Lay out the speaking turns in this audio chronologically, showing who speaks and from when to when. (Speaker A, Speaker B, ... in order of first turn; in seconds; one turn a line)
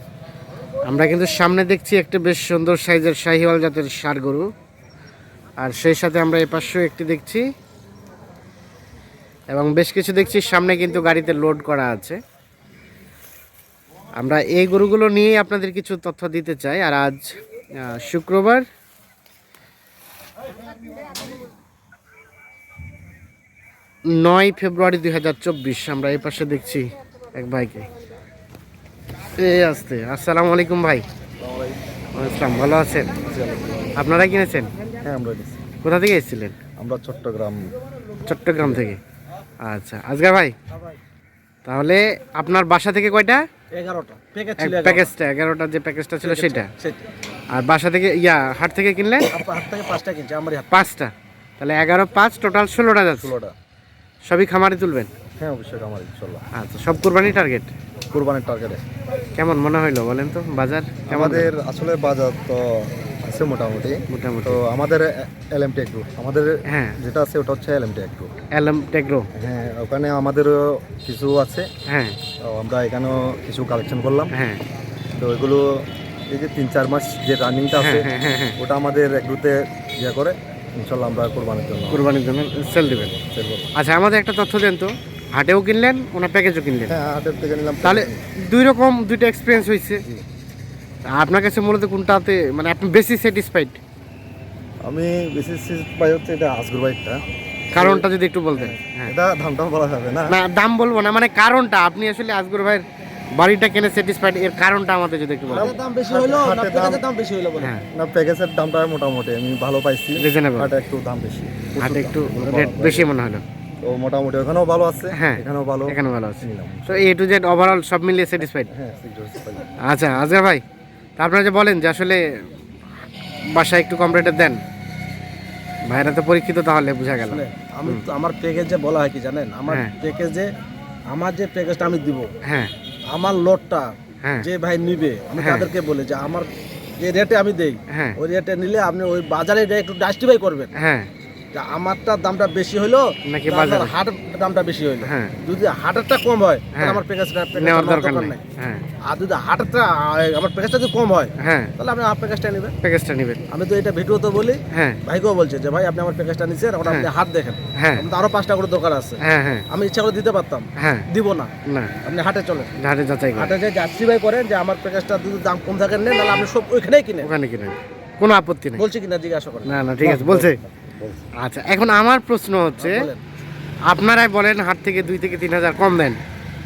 Speaker A: 0.9-4.5
Speaker A: 5.6-7.5
Speaker A: 9.5-12.2
Speaker A: 14.2-18.6
Speaker A: 24.1-27.9
Speaker A: 29.4-31.0
Speaker B: 31.4-31.8
Speaker A: 32.2-33.1
Speaker B: 33.3-34.0
Speaker A: 34.0-34.7
Speaker B: 35.0-35.6
Speaker A: 35.8-36.6
Speaker B: 36.8-37.7
Speaker A: 38.2-39.0
Speaker A: 39.6-40.5
Speaker C: 40.7-41.0
Speaker A: 41.7-43.4
Speaker C: 43.7-45.1
Speaker A: 44.6-46.7
Speaker C: 46.2-47.1
Speaker A: 47.5-49.4
Speaker C: 49.3-50.8
Speaker A: 50.7-53.3
Speaker B: 53.2-53.5
Speaker A: 54.2-55.1
Speaker B: 55.4-56.4
Speaker A: 56.5-57.7
Speaker B: 58.1-58.8
Speaker A: 59.4-61.5
Speaker B: 61.1-68.3
Speaker A: 64.1-64.6
Speaker A: 66.7-67.0
Speaker A: 68.5-69.3
Speaker B: 69.4-71.7
Speaker A: 71.9-72.2
Speaker B: 72.4-74.3
Speaker A: 74.3-74.6
Speaker B: 75.2-82.1
Speaker A: 77.8-78.6
Speaker A: 81.9-83.1
Speaker B: 82.8-83.7
Speaker A: 83.8-87.0
Speaker B: 86.9-88.2
Speaker A: 87.8-90.0
Speaker A: 91.1-93.8
Speaker B: 94.8-97.2
Speaker A: 97.7-99.1
Speaker B: 97.8-100.3
Speaker A: 100.3-105.8
Speaker C: 105.5-107.7
Speaker B: 105.5-107.0
Speaker B: 107.9-113.1
Speaker A: 110.2-110.7
Speaker A: 111.8-113.4
Speaker B: 113.8-117.1
Speaker A: 115.1-118.7
Speaker B: 118.7-119.7
Speaker A: 119.9-120.6
Speaker A: 121.2-122.2
Speaker A: 123.5-124.6
Speaker A: 125.9-128.0
Speaker C: 127.2-130.5
Speaker C: 131.1-132.3
Speaker A: 132.4-132.7
Speaker C: 133.1-140.7
Speaker A: 135.4-135.7
Speaker A: 137.9-138.2
Speaker A: 140.8-141.1
Speaker C: 141.5-148.4
Speaker A: 143.3-143.9
Speaker A: 145.0-145.3
Speaker A: 146.8-147.0
Speaker A: 147.6-148.8
Speaker C: 149.1-152.7
Speaker A: 151.4-151.7
Speaker A: 152.8-153.4
Speaker C: 153.5-161.5
Speaker A: 154.7-155.0
Speaker A: 157.8-158.1
Speaker A: 159.2-159.6
Speaker A: 160.8-161.1
Speaker A: 161.7-161.9
Speaker C: 162.0-162.7
Speaker A: 162.8-163.5
Speaker C: 163.3-167.3
Speaker A: 167.2-168.8
Speaker C: 168.8-169.7
Speaker A: 169.7-170.6
Speaker B: 170.0-171.2
Speaker A: 171.4-173.1
Speaker C: 172.8-173.2
Speaker A: 173.9-176.2